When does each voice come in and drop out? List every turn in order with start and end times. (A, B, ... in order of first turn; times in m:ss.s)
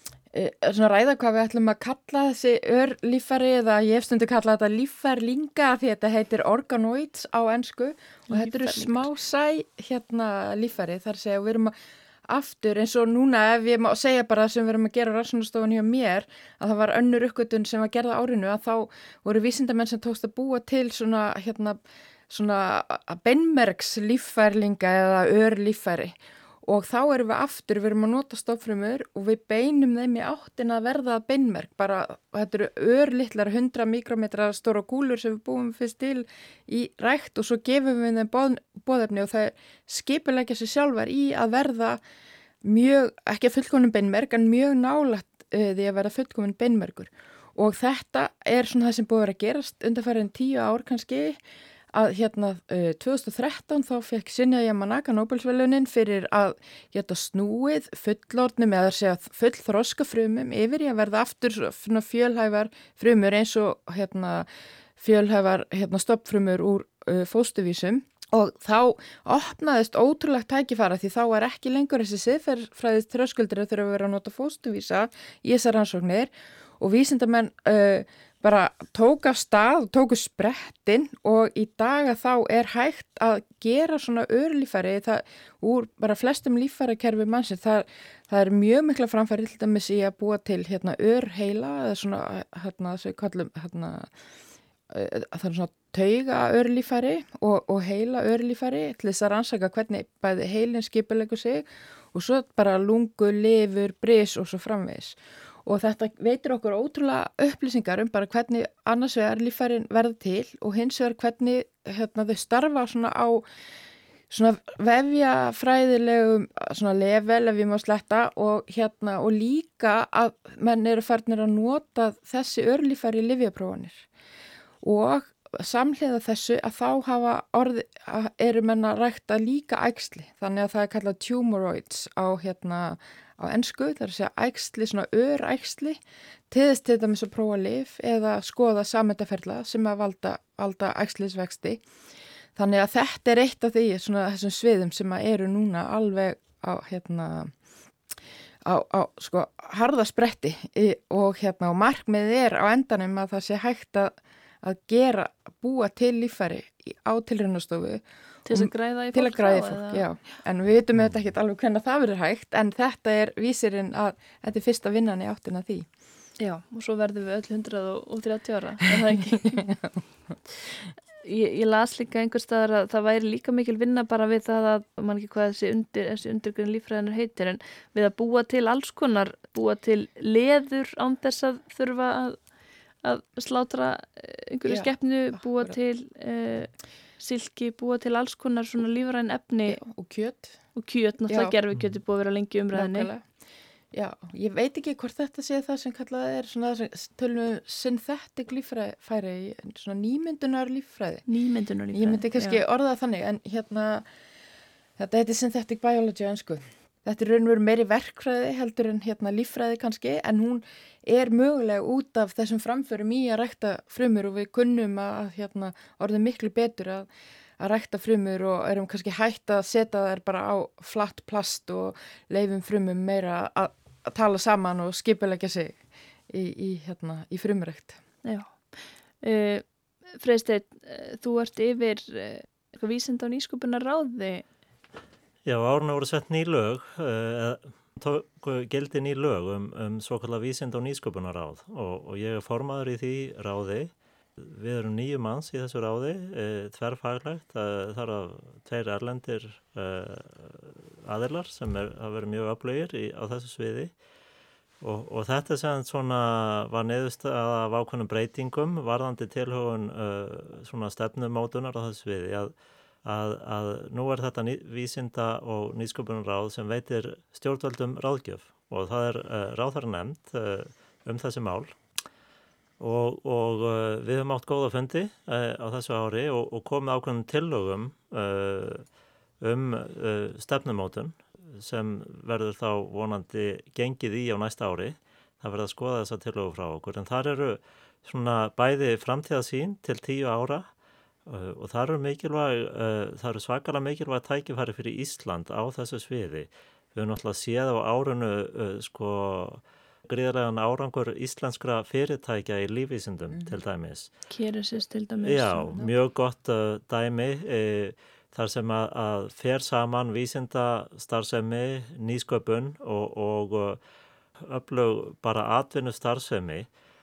0:00.3-0:11.7 A
0:08.3-0:09.1 B
0:12.3-0:21.8 A
0:22.3-0:42.0 A
0:42.6-0:51.4 A
0:51.9-1:04.5 A
1:05.0-1:34.1 A
1:34.9-1:53.4 A
1:54.3-2:04.0 A
2:04.8-2:21.8 A
2:22.6-2:27.5 A
2:28.6-2:45.9 A
2:38.4-2:40.1 B
2:46.4-2:49.6 B
2:49.4-2:50.0 A
2:51.2-3:02.4 B
3:03.0-3:09.8 B
3:04.6-3:05.7 A
3:09.7-3:10.6 A
3:10.7-3:13.1 B
3:11.3-3:11.5 A
3:11.7-3:12.0 C
3:12.7-3:13.2 A
3:13.9-3:21.2 A
3:21.2-3:22.6 B
3:21.9-3:24.0 A
3:25.0-3:37.1 A
3:37.6-3:48.0 A
3:48.2-3:48.7 B
3:49.2-3:54.5 B
3:55.4-4:13.9 C
4:14.8-4:22.5 C
4:23.0-4:31.8 C
4:32.8-4:38.8 C
4:39.4-4:50.6 C
4:51.2-5:04.1 C
5:04.3-5:05.7 B
5:05.2-5:13.8 C
5:14.4-5:16.7 C